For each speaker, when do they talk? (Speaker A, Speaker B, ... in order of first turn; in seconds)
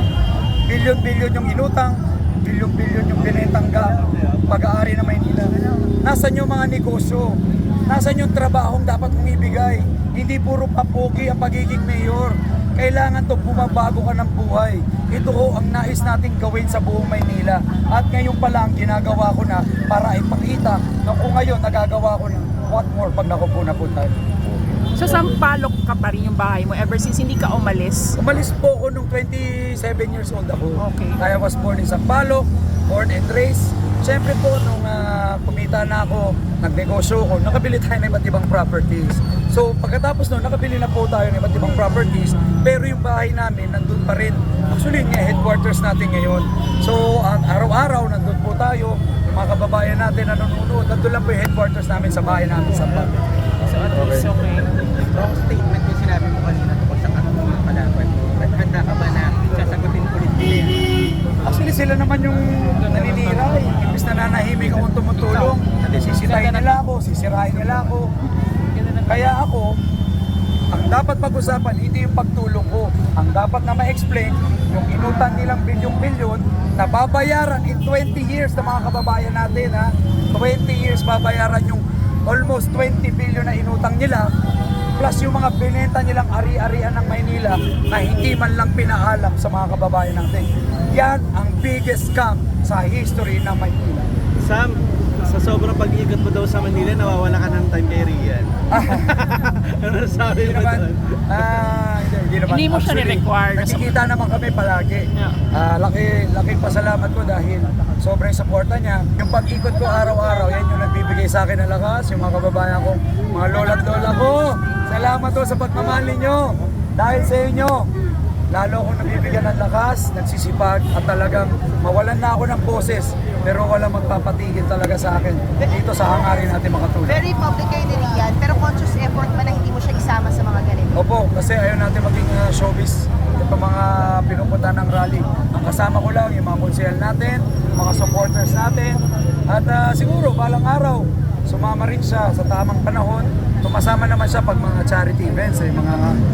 Speaker A: 0.7-24.1, 28.2-53.1, 61.4-68.1, 69.0-69.8, 70.7-84.3, 85.0-94.1, 98.7-99.1, 100.4-117.9, 118.5-127.2, 130.9-146.2
Speaker B: 24.9-28.2, 30.8-31.2, 53.7-54.7, 102.5-103.9, 105.1-105.4
Speaker C: 53.8-54.3, 55.0-60.8
Speaker D: 94.4-101.4
Speaker E: 127.1-130.9